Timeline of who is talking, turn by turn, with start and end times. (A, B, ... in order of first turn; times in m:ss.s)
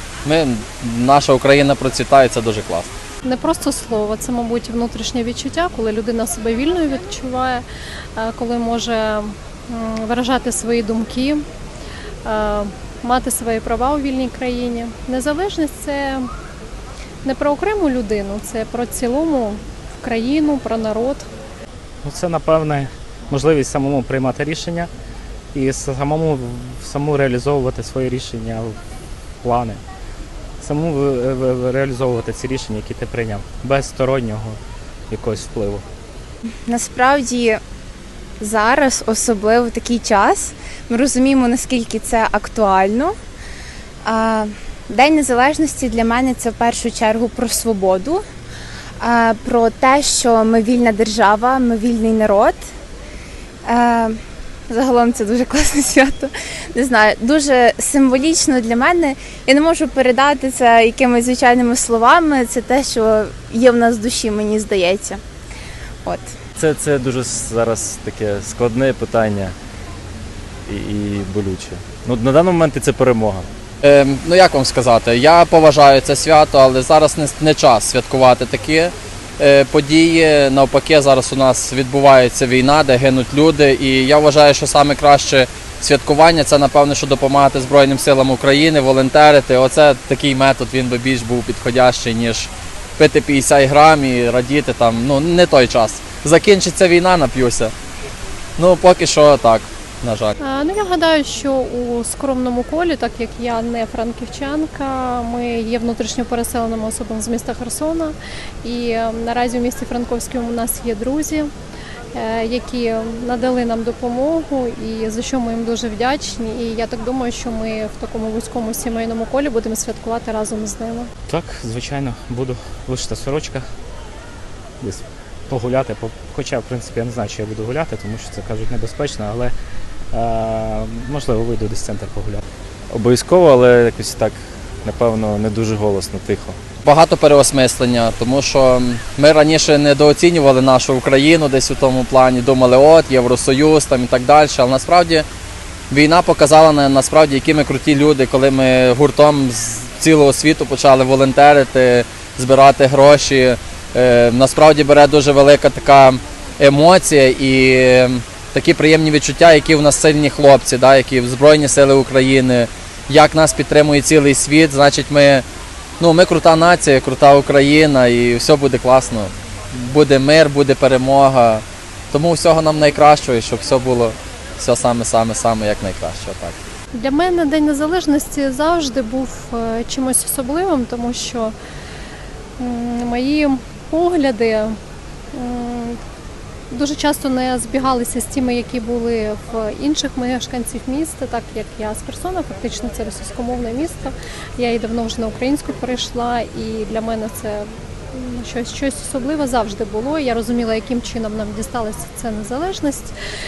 0:00.2-0:02.9 A
0:03.2-0:07.6 B
0:08.2-0:11.4 B
0:12.2-0:16.3 B
0:17.2-0:21.3 B
0:22.0-0:24.9 C
0:25.5-0:28.8 C
0:29.4-0:29.8 C
0:30.6-0:35.8 C
0:36.7-0:37.6 D
0:38.4-0:43.1 D
0:44.0-0:48.2 D
0:49.0-0:52.6 D
0:53.6-0:54.2 D
0:54.7-1:05.2 D
1:06.0-1:06.3 D
1:06.6-1:09.6 E
1:10.7-1:13.5 E
1:13.8-1:37.7 A
1:38.6-1:40.3 A
1:40.4-1:51.5 B
1:52.1-2:01.1 B
2:01.3-2:03.6 C
2:04.8-2:09.5 C
2:10.1-2:12.4 C
2:12.9-2:16.6 E
2:16.8-2:25.2 A
2:25.9-2:45.4 A
2:46.0-2:56.6 A
2:56.9-3:01.5 B
3:02.6-3:04.8 B
3:05.3-3:06.0 B
3:06.7-3:23.1 B